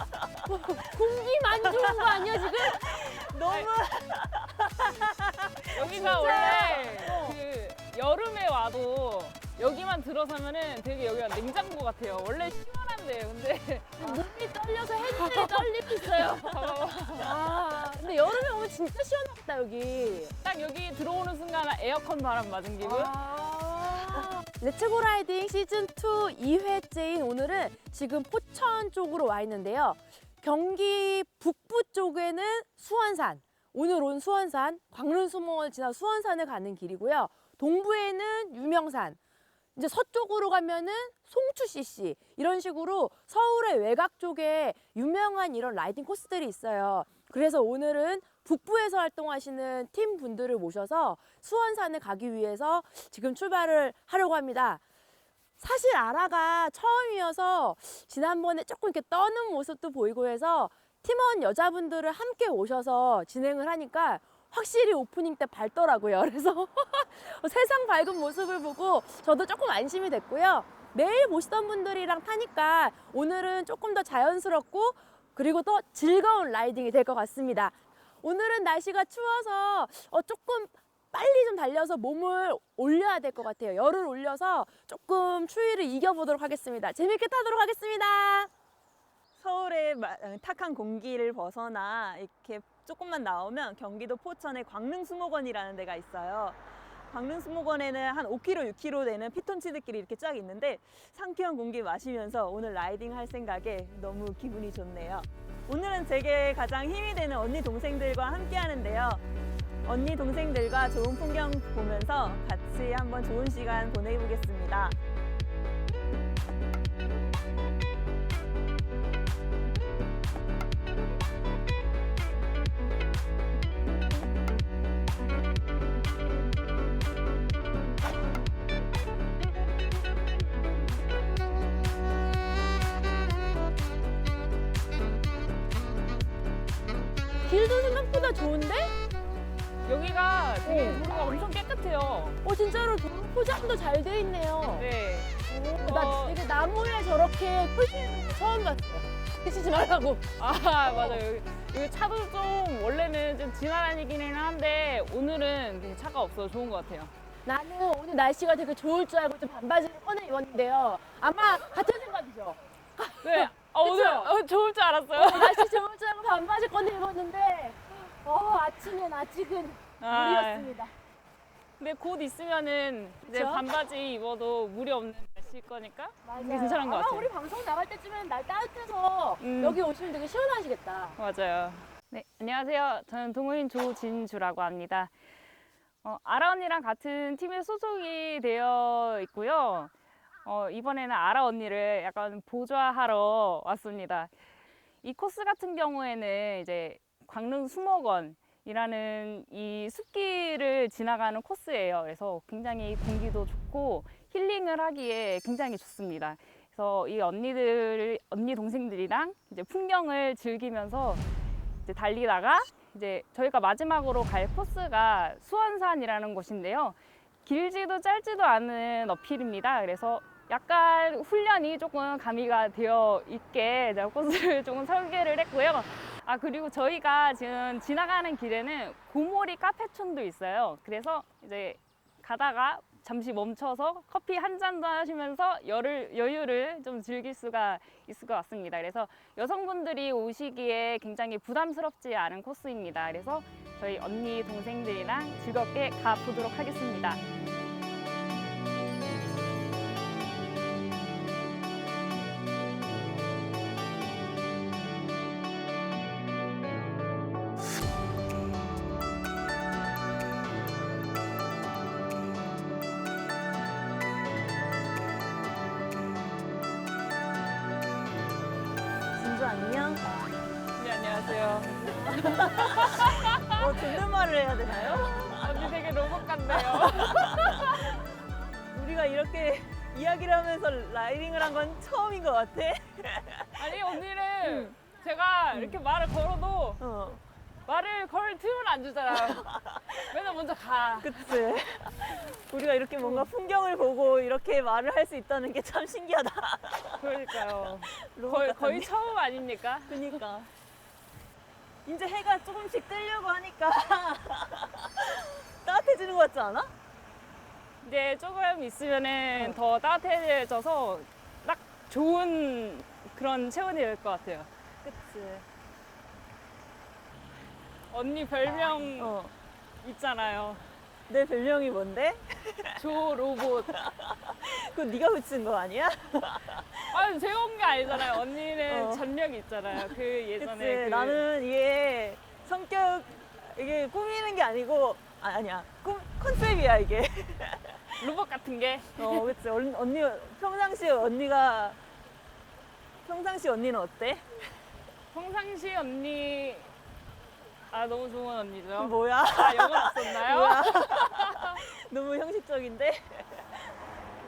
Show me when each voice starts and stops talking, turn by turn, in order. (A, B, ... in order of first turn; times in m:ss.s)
0:00.5-0:02.9 A
0:01.6-0:06.9 B
0:05.7-0:14.2 C
0:05.9-0:07.4 A
0:14.0-0:20.3 A
0:15.1-0:17.3 C
0:20.4-0:23.2 C
0:22.8-0:39.2 A
0:39.8-0:54.8 A
0:55.6-1:28.5 A
1:29.4-1:36.6 B
1:37.1-1:49.2 B
1:49.8-1:55.0 B
2:17.5-2:19.0 A
2:19.8-2:22.4 C
2:20.6-2:21.0 A
2:22.4-2:24.9 A
2:24.8-2:26.4 C
2:25.5-2:30.2 A
2:30.4-2:37.1 C
2:37.4-2:44.3 A
2:43.2-2:45.7 C
2:45.1-2:50.9 A
2:50.0-2:50.7 C
2:51.8-2:57.3 C
2:53.3-2:53.6 A
2:56.3-3:01.2 A
2:59.4-2:59.8 C
3:01.2-3:05.1 C
3:06.0-3:09.9 C
3:10.4-3:14.3 C
3:15.0-3:31.2 C
3:31.8-4:07.2 C
4:29.1-4:30.2 B
4:30.8-4:34.0 C
4:32.1-4:35.6 B
4:35.3-4:38.0 C
4:36.7-4:37.8 B
4:38.7-4:43.6 B
4:43.6-4:46.8 C
4:44.4-4:44.7 B
4:46.8-4:47.2 B
4:47.7-4:51.3 C
4:49.3-4:49.6 B
4:51.0-4:57.1 B
4:53.0-4:53.3 C
4:57.0-5:00.1 C
4:57.6-4:58.9 B
4:59.9-5:00.5 B
5:01.9-5:06.7 B
5:07.8-5:15.2 C
5:14.9-5:15.4 B
5:17.9-5:19.1 C
5:19.0-5:19.3 B
5:19.8-5:20.6 C
5:21.1-5:22.8 B
5:22.8-5:23.7 C
5:23.8-5:26.9 B
5:26.9-5:31.2 C
5:28.7-5:29.0 B
5:30.4-5:38.0 B
5:38.0-5:39.3 C
5:39.0-5:41.8 B
5:43.0-5:44.4 B
5:45.1-5:46.7 C
5:47.7-5:51.6 C
5:48.8-5:53.6 B